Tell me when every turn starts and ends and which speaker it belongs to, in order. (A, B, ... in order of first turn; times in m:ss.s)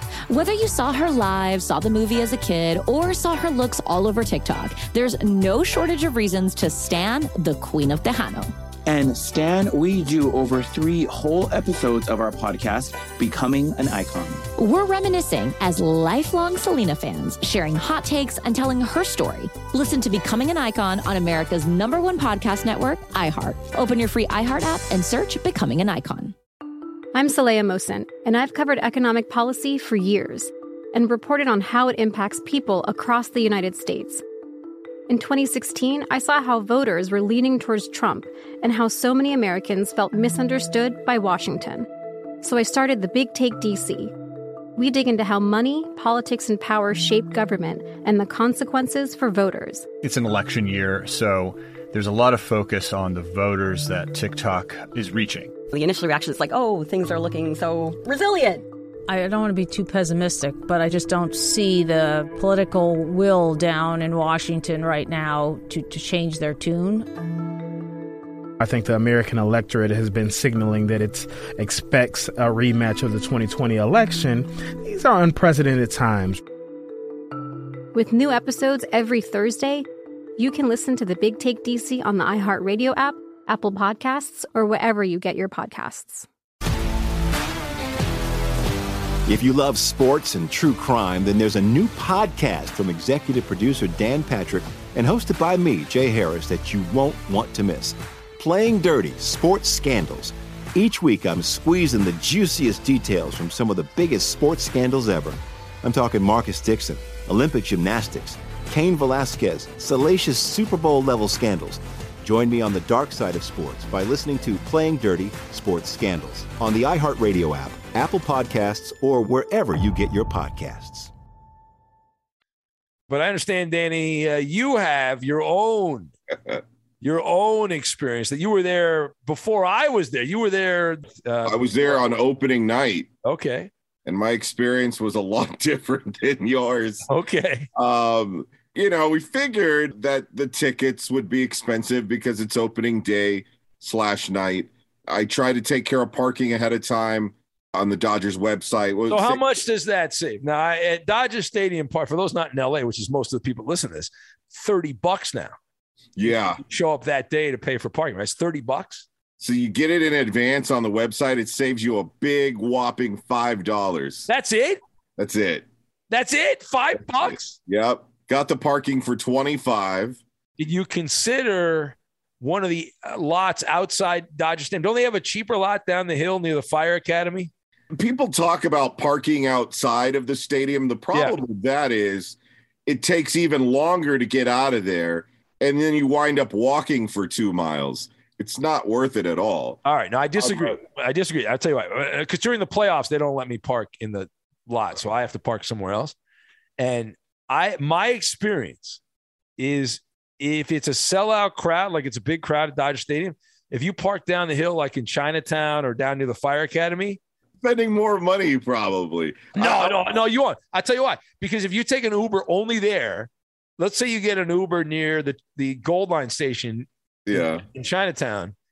0:00.3-0:08.5 A
0:08.8-0:14.4 B
0:14.6-0:26.3 A
0:27.1-0:34.2 C
0:35.1-0:41.9 C
0:42.4-0:44.1 C
0:44.8-0:49.9 C
0:50.0-0:55.5 D
0:55.7-0:58.6 E
0:59.1-1:07.1 F
1:08.6-1:16.4 G
1:17.9-1:19.8 C
1:20.4-1:26.3 C
1:29.3-2:01.1 H
2:03.1-2:06.1 I
2:07.0-2:12.2 I
2:11.4-2:13.1 J
2:13.2-2:13.7 I
2:14.0-2:17.0 J
2:17.1-2:17.7 I
2:17.7-2:29.4 J
2:29.1-2:35.5 I
2:36.2-2:36.6 J
2:36.2-2:39.0 I
2:39.4-2:44.3 J
2:44.3-2:44.8 I
2:45.2-2:45.6 J
2:46.1-2:47.5 I
2:47.2-2:50.2 J
2:50.6-2:57.5 I
2:57.9-3:09.8 J
3:09.8-3:16.1 I
3:10.4-3:10.7 J
3:16.8-3:19.0 I
3:19.6-3:27.2 I
3:27.6-3:30.0 J
3:29.6-3:38.5 I
3:37.3-3:37.6 J